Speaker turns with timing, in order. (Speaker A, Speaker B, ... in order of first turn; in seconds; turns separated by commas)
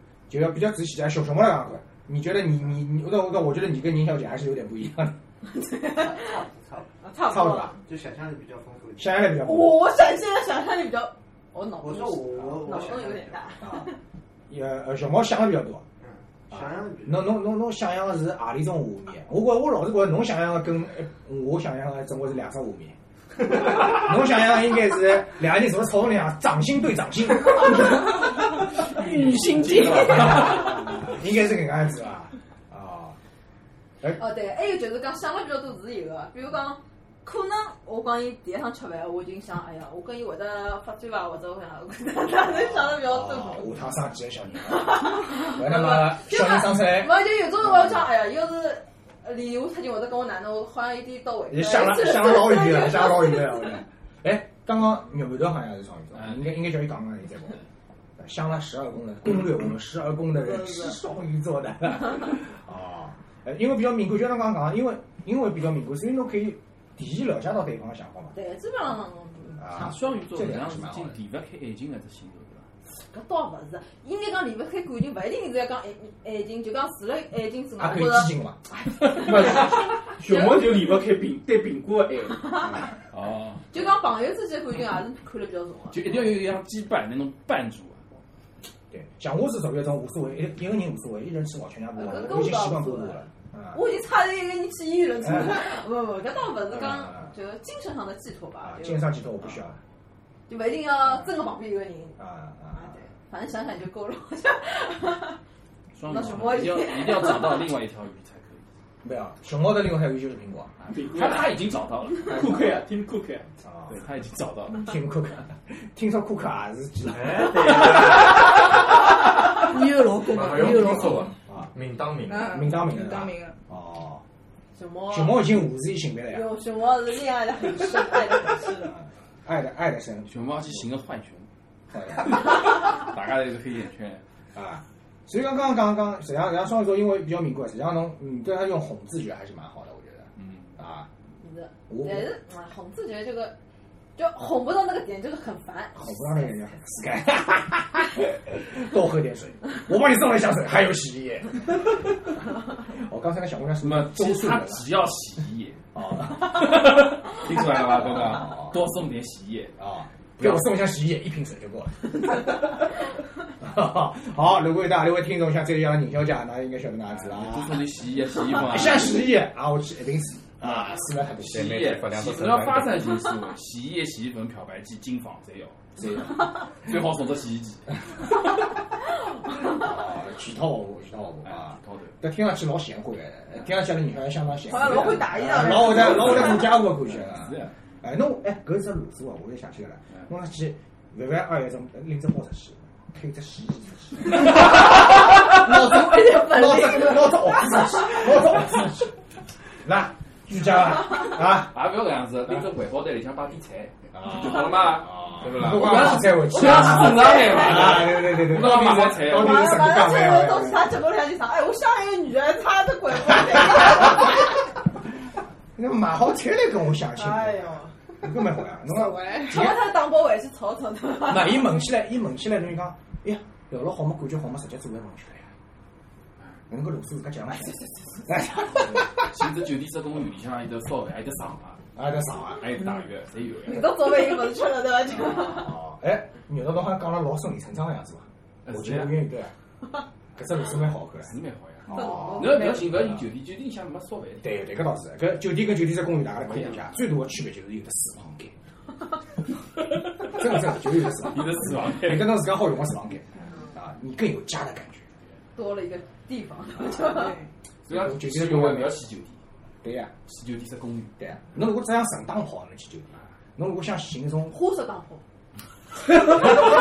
Speaker A: 0.3-5.2, Speaker B: 5.5-6.4, Speaker C: 6.0-7.0, Speaker B: 7.0-7.8, Speaker A: 7.3-7.7, Speaker C: 7.8-9.4, Speaker A: 9.0-9.8, Speaker B: 9.4-14.0, Speaker C: 11.8-13.6, Speaker A: 13.6-13.9, Speaker A: 14.5-15.8, Speaker C: 16.0-17.4, Speaker A: 16.5-33.2, Speaker D: 29.0-30.4, Speaker E: 29.1-30.6, Speaker B: 34.1-43.7, Speaker A: 42.5-48.1, Speaker B: 44.7-53.8, Speaker A: 51.5-57.6, Speaker E: 56.1-56.6, Speaker A: 58.2-68.4, Speaker B: 60.4-61.0, Speaker B: 68.3-69.9, Speaker A: 69.6-71.2, Speaker E: 69.7-72.7, Speaker B: 72.9-80.7, Speaker A: 77.8-78.6, Speaker F: 79.0-82.7, Speaker B: 82.4-82.8, Speaker E: 83.1-83.6, Speaker B: 83.7-86.1, Speaker E: 85.9-88.0, Speaker A: 88.9-93.8, Speaker B: 92.0-99.6, Speaker A: 95.2-95.6, Speaker A: 96.7-97.3, Speaker A: 98.6-99.8, Speaker B: 100.5-102.2, Speaker A: 102.2-103.0, Speaker B: 102.7-105.4, Speaker E: 105.9-108.7, Speaker B: 106.1-107.7, Speaker A: 109.0-110.7, Speaker E: 110.8-112.6, Speaker F: 110.9-111.6, Speaker F: 112.2-113.5, Speaker A: 113.6-114.0, Speaker E: 113.9-114.9, Speaker A: 114.7-118.2, Speaker G: 117.0-118.4, Speaker D: 119.6-121.3, Speaker G: 120.2-122.5, Speaker A: 120.8-121.7, Speaker D: 122.3-123.6, Speaker A: 122.5-124.2, Speaker B: 124.8-125.7, Speaker A: 125.1-126.5, Speaker B: 126.3-129.0, Speaker A: 128.9-130.8, Speaker E: 130.3-131.5, Speaker A: 131.9-132.5, Speaker E: 132.2-134.2, Speaker A: 134.6-141.1, Speaker E: 140.4-140.8, Speaker B: 141.4-143.6, Speaker A: 141.9-142.3, Speaker B: 144.2-147.0, Speaker A: 145.9-152.1, Speaker A: 152.9-154.8, Speaker E: 153.8-155.8, Speaker A: 155.9-157.0, Speaker E: 156.3-159.8, Speaker A: 157.7-158.8, Speaker A: 159.8-162.8, Speaker E: 160.4-160.8, Speaker A: 163.6-167.8, Speaker E: 167.1-169.2, Speaker A: 168.6-171.8, Speaker G: 171.4-173.0, Speaker E: 171.5-178.3, Speaker A: 176.0-176.5, Speaker A: 179.6-199.1, Speaker E: 181.4-182.2, Speaker B: 184.7-186.7, Speaker E: 184.8-187.7, Speaker B: 195.2-198.2, Speaker A: 199.8-201.8, Speaker E: 201.6-209.9, Speaker A: 204.1-210.9, Speaker B: 206.9-207.7, Speaker B: 209.3-214.4, Speaker A: 215.8-219.9, Speaker B: 217.1-218.0, Speaker B: 218.9-221.7, Speaker A: 221.2-225.5, Speaker A: 226.7-229.3, Speaker B: 227.6-228.6, Speaker E: 229.2-231.8, Speaker A: 232.0-232.7, Speaker E: 232.6-233.9, Speaker B: 233.6-235.8, Speaker A: 235.2-239.5, Speaker E: 238.6-239.3, Speaker A: 240.4-241.3, Speaker E: 241.2-244.6, Speaker A: 241.9-243.2, Speaker B: 241.9-242.9, Speaker A: 244.4-248.5, Speaker E: 246.4-246.9, Speaker E: 250.1-250.4, Speaker A: 250.2-255.1, Speaker E: 251.1-252.5, Speaker B: 255.6-257.4, Speaker D: 257.0-257.5, Speaker E: 257.9-259.4, Speaker A: 257.9-259.0, Speaker A: 259.8-260.1, Speaker E: 260.3-261.3, Speaker A: 261.2-264.6, Speaker B: 264.5-265.2